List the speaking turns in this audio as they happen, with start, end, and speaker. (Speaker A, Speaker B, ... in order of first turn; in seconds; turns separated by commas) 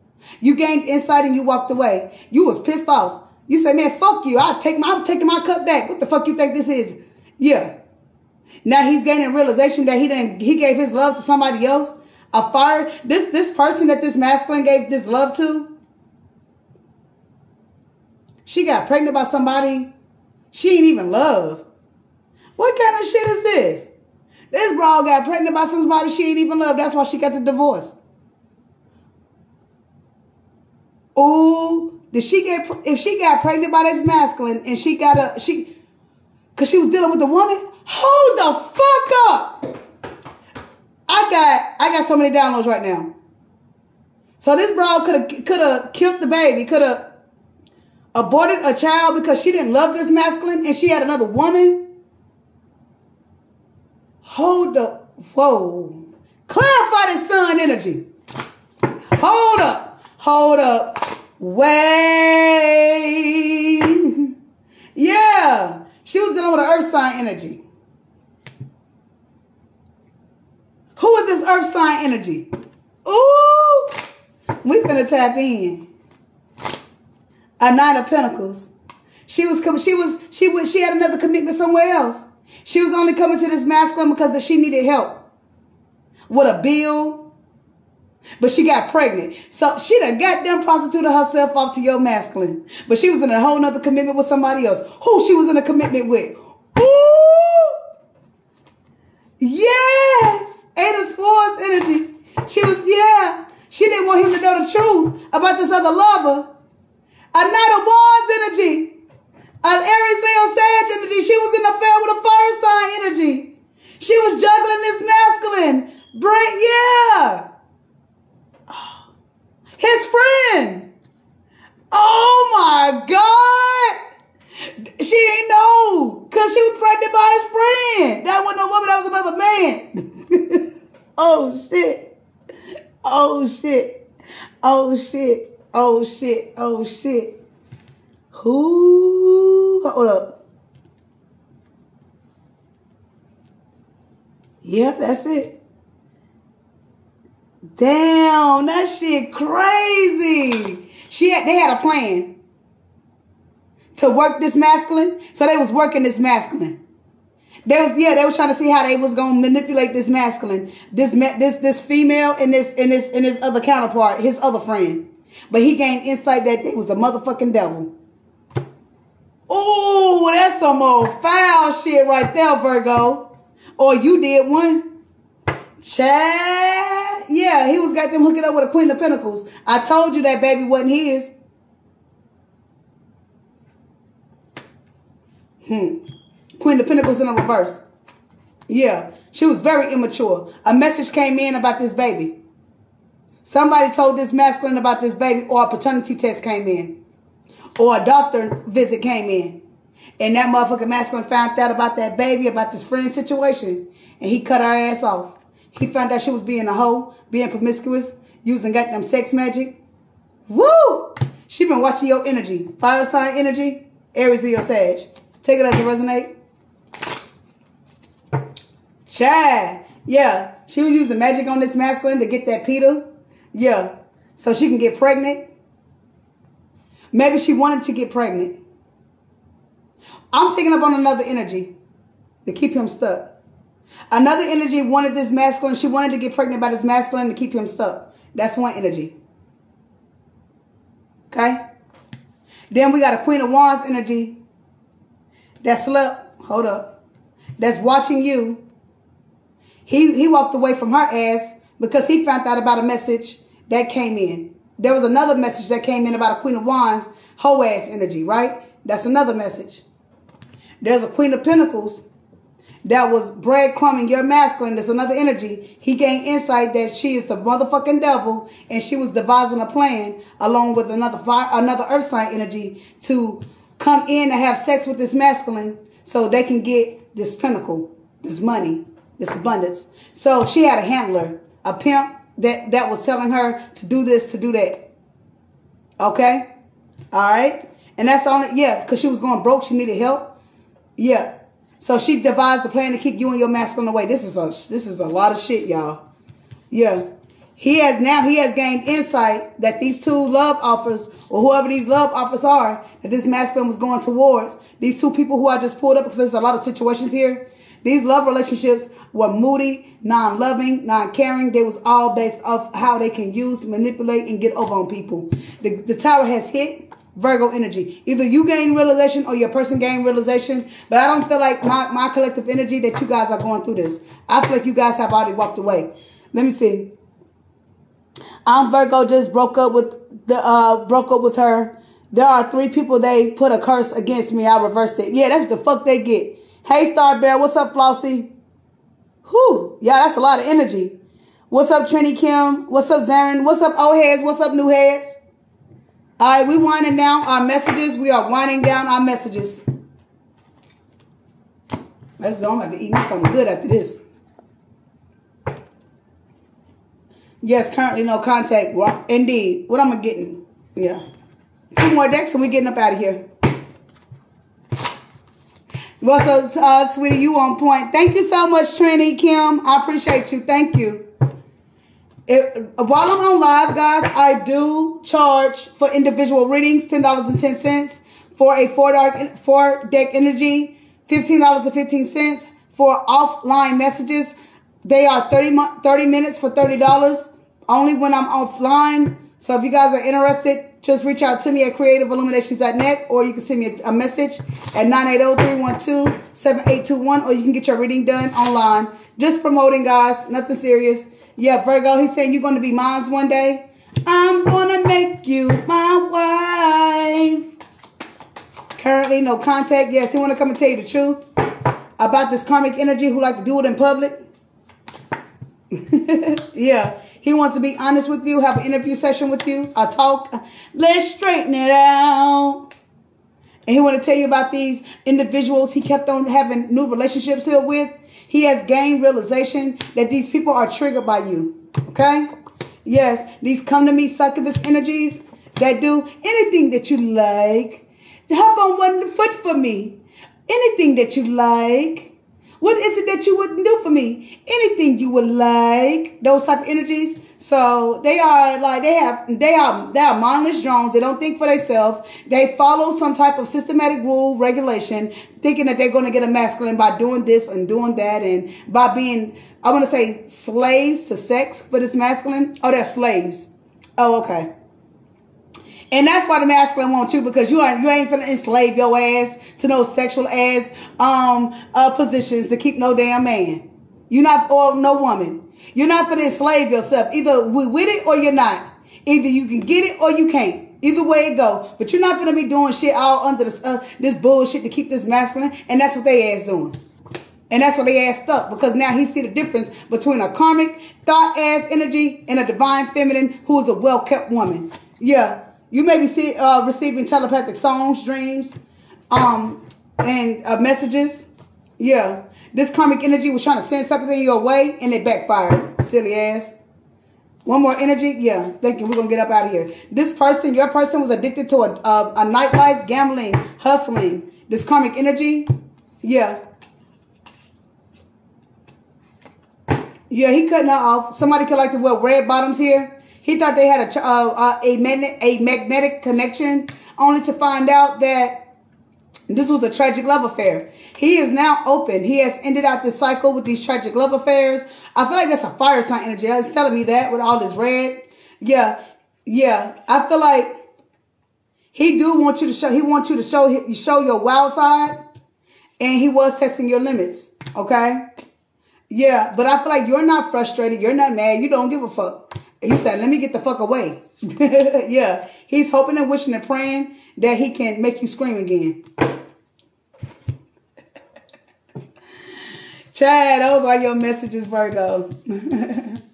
Speaker A: 0.4-7.7, Speaker A: 8.6-15.7, Speaker A: 18.4-19.9, Speaker A: 20.5-21.6, Speaker A: 22.6-23.9, Speaker A: 24.5-27.9, Speaker A: 31.1-35.7, Speaker A: 36.5-39.6, Speaker A: 41.1-43.1, Speaker A: 44.4-47.0, Speaker A: 48.1-51.8, Speaker A: 54.2-58.0, Speaker A: 59.1-64.2, Speaker A: 65.0-67.6, Speaker A: 71.0-72.5, Speaker A: 73.0-73.9, Speaker A: 74.6-75.8, Speaker A: 77.6-78.7, Speaker A: 79.3-85.2, Speaker A: 86.3-87.2, Speaker A: 88.4-97.8, Speaker A: 99.4-106.5, Speaker A: 107.3-108.9, Speaker A: 109.6-113.5, Speaker A: 114.0-117.4, Speaker A: 119.8-120.9, Speaker A: 121.9-124.0, Speaker A: 125.0-130.6, Speaker A: 131.2-132.1, Speaker A: 133.0-134.0, Speaker A: 134.6-137.3, Speaker A: 138.3-140.4, Speaker A: 144.6-145.6, Speaker A: 147.8-152.3, Speaker A: 153.9-156.8, Speaker A: 157.7-167.9, Speaker A: 169.5-173.2, Speaker A: 173.8-174.8, Speaker A: 175.8-181.3, Speaker A: 185.6-186.0, Speaker A: 186.6-187.8, Speaker A: 188.7-192.3, Speaker A: 193.4-196.9, Speaker A: 197.8-199.6, Speaker A: 200.2-209.8, Speaker A: 210.5-216.3, Speaker A: 219.1-225.4, Speaker A: 227.1-228.6, Speaker A: 230.3-231.7, Speaker A: 232.4-233.3, Speaker A: 234.1-239.1, Speaker A: 241.3-241.6, Speaker A: 242.7-244.4, Speaker A: 245.6-246.9, Speaker A: 247.6-248.6, Speaker A: 249.8-259.8, Speaker A: 260.8-262.0, Speaker A: 262.8-284.8, Speaker A: 286.0-286.5, Speaker A: 287.1-290.3, Speaker A: 291.0-296.0, Speaker A: 296.7-297.0, Speaker A: 297.6-326.9, Speaker A: 328.4-338.3, Speaker A: 339.2-340.9, Speaker A: 341.5-345.2, Speaker A: 346.2-349.6, Speaker A: 352.2-354.0, Speaker A: 357.4-361.0, Speaker A: 361.8-363.2, Speaker A: 366.0-371.0, Speaker A: 372.3-407.4, Speaker A: 408.8-411.2, Speaker A: 412.0-414.1, Speaker A: 415.7-422.6, Speaker A: 423.7-432.3, Speaker A: 432.8-464.5, Speaker A: 465.9-486.7, Speaker A: 487.5-498.6, Speaker A: 499.1-501.3, Speaker A: 501.8-506.5, Speaker A: 507.4-515.5, Speaker A: 516.0-516.4, Speaker A: 520.1-528.4, Speaker A: 529.3-540.5, Speaker A: 541.7-545.0, Speaker A: 545.8-548.0, Speaker A: 548.9-558.8, Speaker A: 562.9-566.0